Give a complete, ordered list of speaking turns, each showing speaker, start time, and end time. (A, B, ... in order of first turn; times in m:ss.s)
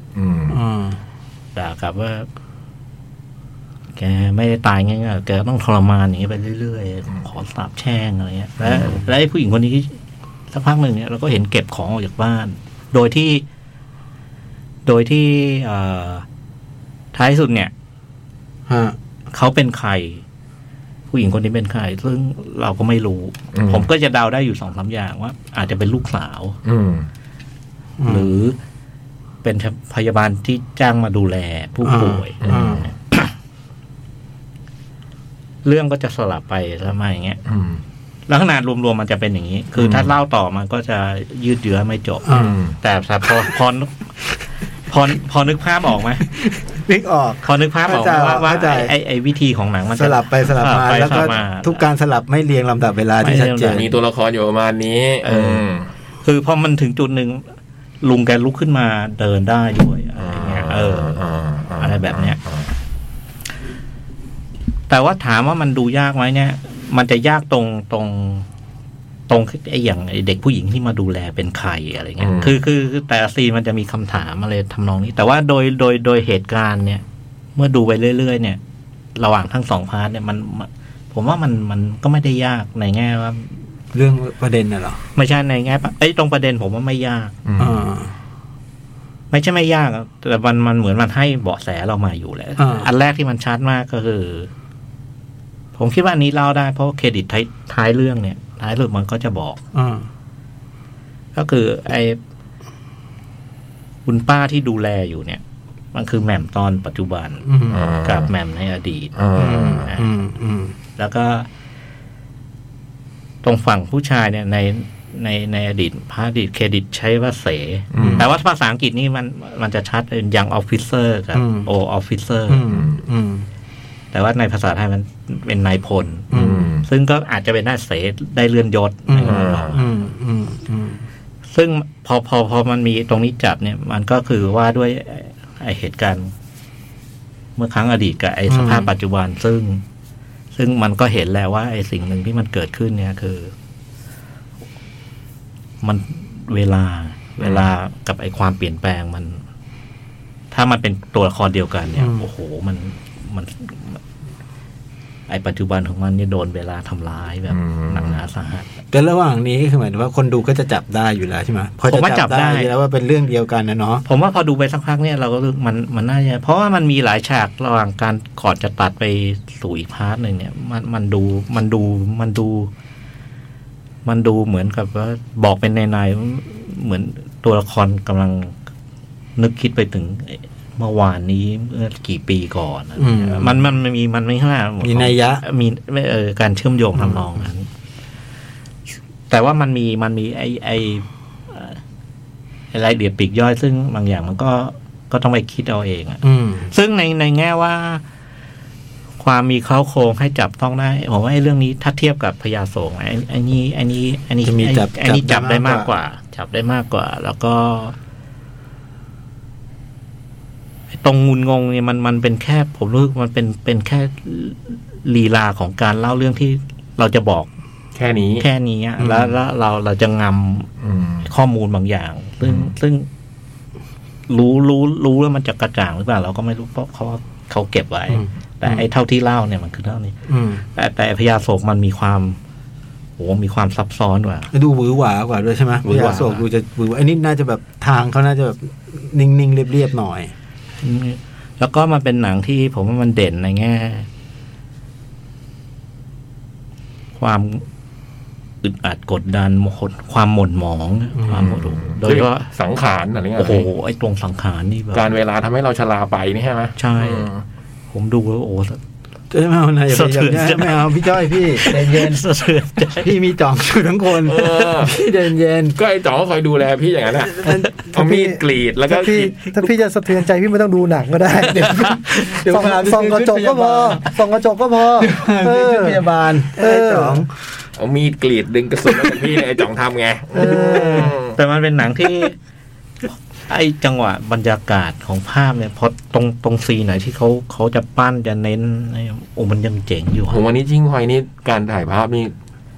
0:00.2-0:00.6 A
0:00.5-0:01.0 B
0:01.6-0:02.3 C
0:04.0-0:10.0 C
0:08.6-0:09.0 A
0:10.5-0:13.4 C
0:14.9-0:16.2 C
0:17.1-0:17.7 C
0:18.7-0:19.0 B
0:19.3-0:20.2 C
0:21.1-0:26.6 C
0:23.5-0:23.9 A
0:26.6-0:27.1 A
0:28.0-0:28.3 B
0:28.1-0:28.6 C
0:29.4-0:33.3 C
0:31.8-0:32.9 B
0:32.4-0:32.8 A
0:35.6-0:37.4 C
0:37.5-0:37.8 A
0:38.3-0:44.0 C
0:39.8-0:40.1 A
0:42.3-0:42.6 B
0:42.3-0:42.8 A
0:44.9-0:46.3 C
0:46.7-0:48.9 B
0:47.4-0:51.8 C
0:50.0-0:53.8 B
0:53.2-0:53.9 C
0:53.7-0:55.9 A
0:55.2-0:55.6 C
0:56.2-0:57.4 C
0:58.0-1:01.2 C
1:00.2-1:02.7 A
1:01.8-1:02.4 C
1:04.9-1:08.5 C
1:09.3-1:17.0 C
1:12.2-1:12.6 A
1:17.6-1:18.6 C
1:19.2-1:23.6 C
1:23.9-1:25.0 B
1:25.2-1:27.4 C
1:27.5-1:27.8 A
1:27.6-1:28.1 B
1:29.3-1:34.5 C
1:32.6-1:32.9 B
1:35.8-1:39.6 C
1:39.7-1:40.1 B
1:41.4-1:42.2 C
1:44.1-1:45.4 C
1:45.9-1:47.5 C
1:47.4-1:47.8 B
1:47.7-1:48.3 A
1:48.0-1:49.2 C
1:49.2-1:49.9 A
1:49.4-1:50.8 B
1:49.8-1:50.1 C
1:51.0-1:51.5 C
1:53.4-2:02.7 C
1:57.9-1:58.3 A
1:58.0-1:58.3 B
2:01.3-2:01.7 B
2:02.5-2:03.5 B
2:04.1-2:06.3 C
2:06.3-2:06.7 B
2:06.3-2:06.9 A
2:06.8-2:09.8 C
2:09.1-2:11.0 B
2:09.2-2:09.8 A
2:11.5-2:16.3 C
2:17.6-2:19.8 C
2:18.5-2:18.9 B
2:20.5-2:23.5 C
2:25.8-2:29.4 C
2:30.5-2:34.0 C
2:32.0-2:32.2 B
2:35.3-2:38.7 C
2:37.5-2:38.2 A
2:38.9-2:44.0 B
2:41.8-2:42.7 C
2:44.0-2:52.7 C
2:54.0-2:58.6 C
2:59.4-3:07.7 C
3:03.0-3:03.6 B
3:04.8-3:05.4 B
3:07.0-3:07.5 B
3:09.3-3:11.8 C
3:12.7-3:18.0 C
3:16.2-3:16.7 B
3:19.2-3:28.0 C
3:24.4-3:25.9 B
3:30.9-3:37.5 C
3:38.0-3:38.4 A
3:38.4-3:40.7 C
3:39.0-3:39.3 B
3:40.8-3:41.3 A
3:41.2-3:43.1 C
3:42.4-3:42.7 A
3:44.3-3:50.2 C
3:48.1-3:48.8 B
3:50.3-3:50.6 B
3:50.7-3:52.4 C
3:53.2-3:54.5 C
3:54.5-4:00.3 B
3:55.8-3:56.4 C
4:00.8-4:04.1 C
4:07.2-4:07.6 C
4:08.6-4:12.5 C
4:11.2-4:11.5 B
4:11.3-4:13.7 A
4:13.4-4:15.1 C
4:14.9-4:17.4 A
4:16.8-4:17.3 C
4:17.9-4:18.8 C
4:19.3-4:22.2 B
4:19.9-4:23.1 C
4:23.0-4:25.8 B
4:24.2-4:25.0 A
4:25.8-4:29.6 A
4:27.2-4:27.9 B
4:27.9-4:37.3 D
4:31.8-4:32.3 C
4:32.2-4:34.1 B
4:35.0-4:37.3 B
4:37.8-4:41.4 A
4:40.3-4:41.2 B
4:40.4-4:41.0 D
4:41.0-4:42.4 C
4:43.5-4:50.4 C
4:50.3-4:52.3 A